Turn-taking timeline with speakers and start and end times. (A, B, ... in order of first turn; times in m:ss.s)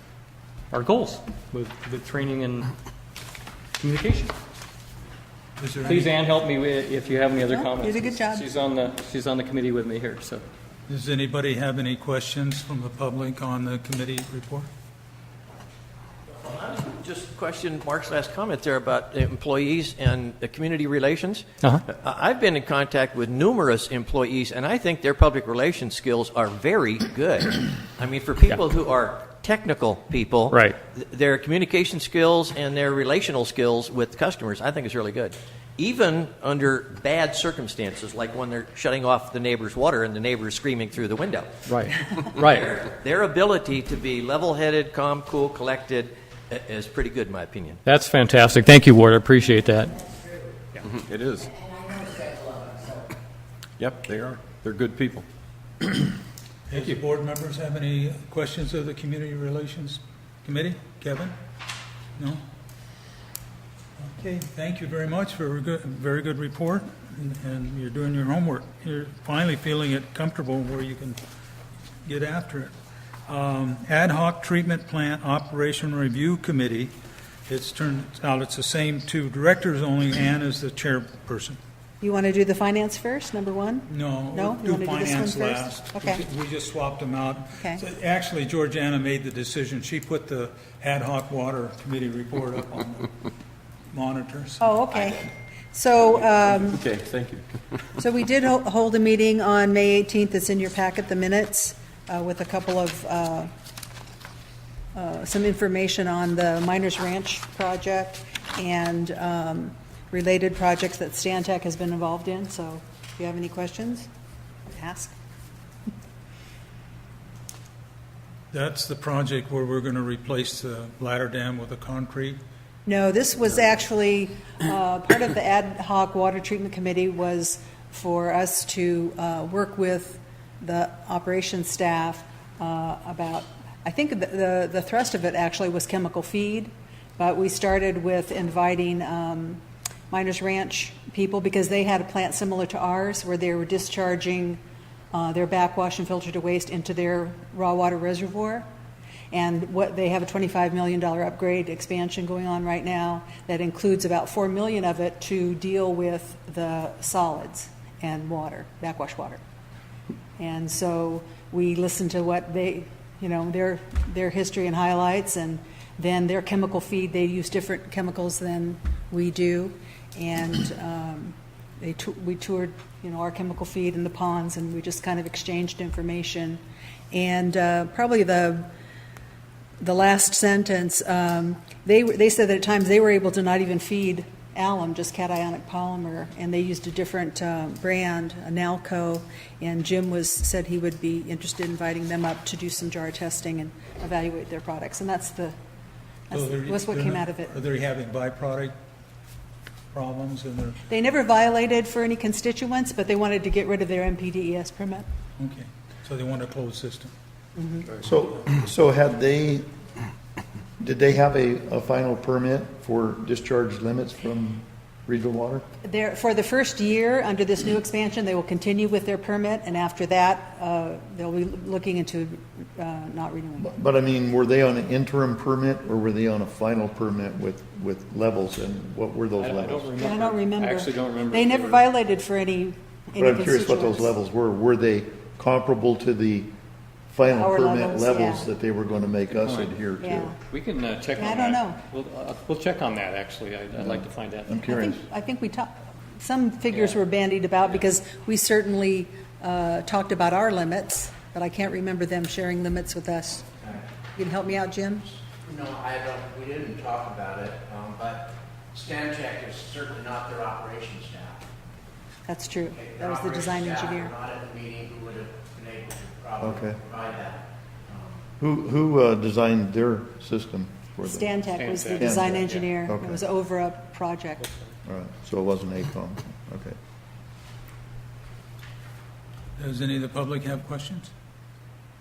0:00.7-0:02.7 A
0:03.8-0:04.3 A
0:05.6-0:06.1 B
0:05.8-0:10.4 A
0:07.4-0:08.5 C
0:10.9-0:14.7 B
0:16.4-0:41.5 D
0:30.5-0:30.8 A
0:41.7-0:42.7 A
0:42.1-0:47.8 D
0:47.8-0:49.9 A
0:49.8-0:50.6 E
0:51.4-0:53.1 E
0:56.7-1:01.3 B
1:02.2-1:02.4 B
1:04.0-1:11.2 B
1:12.0-1:12.7 B
1:13.3-1:16.9 B
1:17.5-1:21.6 B
1:22.0-1:26.2 C
1:23.9-1:33.1 B
1:27.6-1:27.8 C
1:33.9-1:34.7 B
1:34.6-1:36.9 C
1:38.0-1:43.5 C
1:44.9-1:54.1 C
1:54.7-1:55.2 C
1:58.5-2:02.4 B
2:02.8-2:24.6 C
2:25.1-2:28.6 C
2:29.3-2:39.4 C
2:40.4-2:58.7 C
2:59.8-3:15.5 C
3:16.3-3:17.5 C
3:16.3-3:18.7 B
3:19.9-3:20.8 B
3:20.9-3:25.0 C
3:25.4-3:27.1 B
3:27.6-3:27.9 C
3:28.0-3:29.7 F
3:30.8-3:35.6 F
3:35.8-3:43.7 C
3:43.6-3:50.0 F
3:49.4-3:51.9 A
3:50.0-3:54.1 C
3:53.2-3:56.5 F
3:57.1-4:00.3 F
3:57.2-3:58.5 C
3:59.3-3:59.7 A
3:59.9-4:00.4 C
4:00.5-4:04.7 A
4:01.1-4:01.8 C
4:03.8-4:05.0 F
4:04.6-4:13.5 C
4:06.7-4:07.0 A
4:13.6-4:13.9 G
4:14.2-4:15.1 C
4:15.4-4:21.4 G
4:22.3-4:24.1 C
4:22.7-4:28.2 G
4:26.4-4:26.8 F
4:28.4-4:31.4 F
4:31.0-4:34.5 C
4:31.5-4:32.6 A
4:32.0-4:33.2 F
4:34.8-4:36.8 F
4:39.6-4:41.1 B